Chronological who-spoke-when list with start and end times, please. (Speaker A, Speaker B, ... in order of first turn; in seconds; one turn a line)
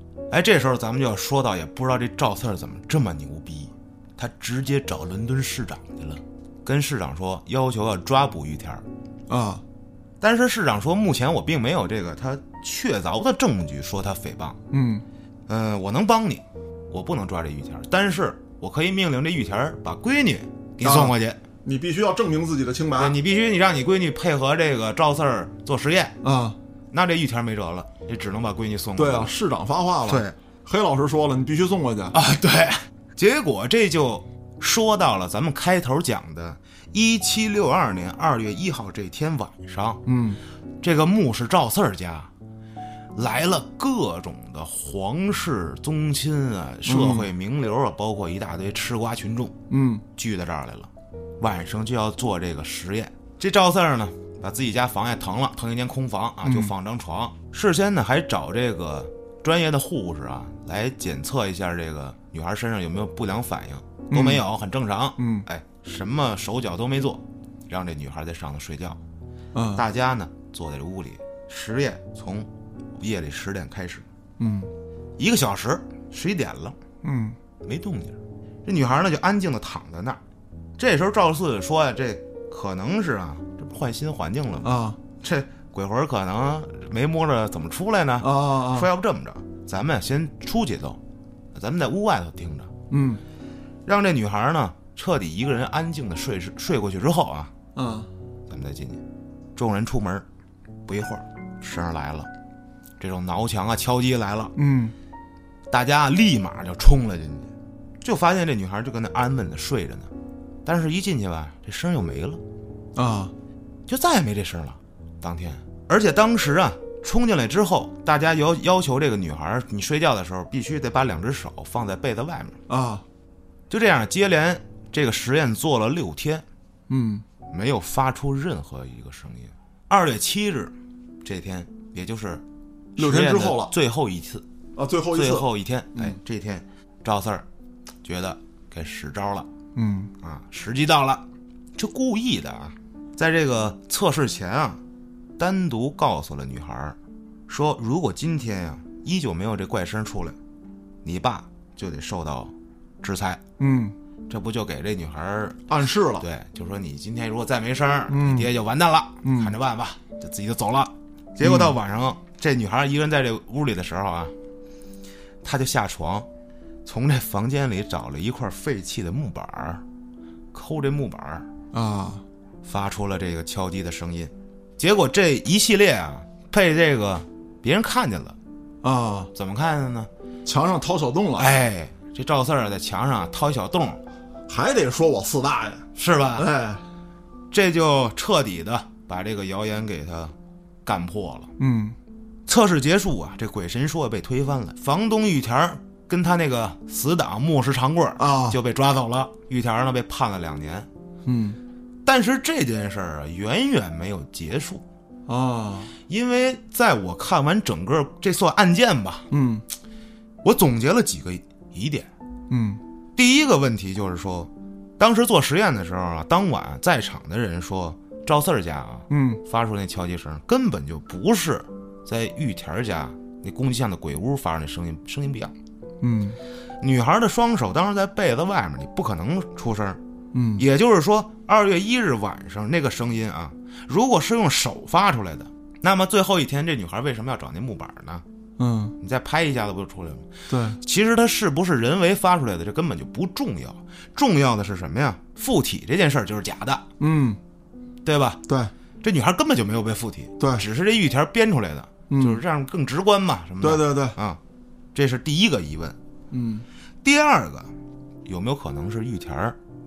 Speaker A: 0.3-8.8
Speaker B: 9.3-9.6
Speaker A: 10.2-14.6
Speaker B: 14.7-15.1
Speaker A: 15.5-21.4
Speaker B: 20.8-23.2
Speaker A: 23.0-26.2
Speaker B: 26.2-26.6
Speaker A: 26.9-29.3
Speaker B: 28.9-32.2
Speaker A: 30.1-30.3
Speaker A: 32.1-40.0
Speaker B: 40.0-40.4
Speaker A: 40.8-42.3
Speaker A: 43.1-49.5
Speaker B: 46.9-47.3
Speaker B: 49.7-50.0
Speaker A: 50.2-69.0
Speaker B: 56.4-56.7
Speaker B: 64.1-64.5
Speaker B: 65.2-65.5
Speaker B: 69.5-69.8
Speaker A: 69.7-74.0
Speaker B: 74.4-74.7
Speaker A: 75.2-76.8
Speaker B: 77.0-77.4
Speaker A: 77.6-80.2
Speaker A: 80.8-91.0
Speaker B: 84.6-85.0
Speaker B: 88.2-88.9
Speaker A: 91.5-92.7
Speaker B: 92.9-93.2
Speaker A: 93.9-97.5
Speaker B: 97.7-98.1
Speaker A: 98.5-99.0
Speaker A: 99.5-100.3
Speaker A: 100.9-102.3
Speaker A: 103.0-104.5
Speaker B: 104.6-105.0
Speaker A: 105.7-107.5
Speaker A: 108.0-110.1
Speaker A: 110.6-112.4
Speaker B: 113.0-113.3
Speaker A: 113.9-122.6
Speaker B: 122.7-123.0
Speaker A: 123.7-126.5
Speaker B: 126.9-127.2
Speaker A: 127.5-130.7
Speaker A: 131.2-132.4
Speaker A: 132.9-134.4
Speaker B: 133.0-133.7
Speaker B: 134.8-136.2
Speaker A: 135.1-137.4
Speaker A: 138.0-139.5
Speaker B: 139.7-140.1
Speaker A: 140.2-141.2
Speaker A: 141.8-144.8
Speaker A: 145.4-147.0
Speaker A: 147.5-150.4
Speaker A: 151.1-153.4
Speaker B: 153.6-153.9
Speaker A: 154.3-155.6
Speaker B: 155.7-156.2
Speaker A: 156.2-164.3
Speaker B: 158.1-158.5
Speaker B: 159.2-159.6
Speaker B: 161.4-161.7
Speaker A: 165.4-166.3
Speaker A: 166.8-169.8
Speaker A: 170.5-171.5
Speaker B: 171.7-172.2
Speaker A: 172.6-178.4
Speaker B: 178.8-179.3
Speaker A: 179.3-180.1
Speaker B: 180.4-181.6
Speaker A: 181.4-184.0
Speaker B: 184.5-186.8
Speaker A: 185.9-186.5
Speaker A: 187.5-190.3
Speaker A: 190.8-191.5
Speaker B: 191.6-191.9
Speaker A: 192.5-200.9
Speaker B: 198.2-198.6
Speaker B: 201.3-201.6
Speaker A: 202.1-204.8
Speaker B: 205.3-205.9
Speaker A: 206.1-209.3
Speaker B: 209.3-209.6
Speaker A: 210.4-212.1
Speaker B: 212.5-212.8
Speaker A: 213.2-225.5
Speaker B: 219.1-219.4
Speaker B: 226.0-226.4
Speaker A: 226.8-230.0
Speaker B: 230.3-230.6
Speaker A: 230.6-238.2
Speaker B: 238.6-238.9
Speaker A: 239.0-246.8
Speaker B: 240.5-240.8
Speaker B: 247.0-247.4
Speaker A: 248.0-248.4
Speaker B: 248.5-248.7
Speaker A: 249.0-254.4
Speaker B: 250.4-250.6
Speaker B: 252.1-252.4
Speaker B: 253.6-254.2
Speaker A: 254.9-255.9
Speaker B: 256.3-256.6
Speaker A: 257.0-257.7
Speaker A: 258.3-259.6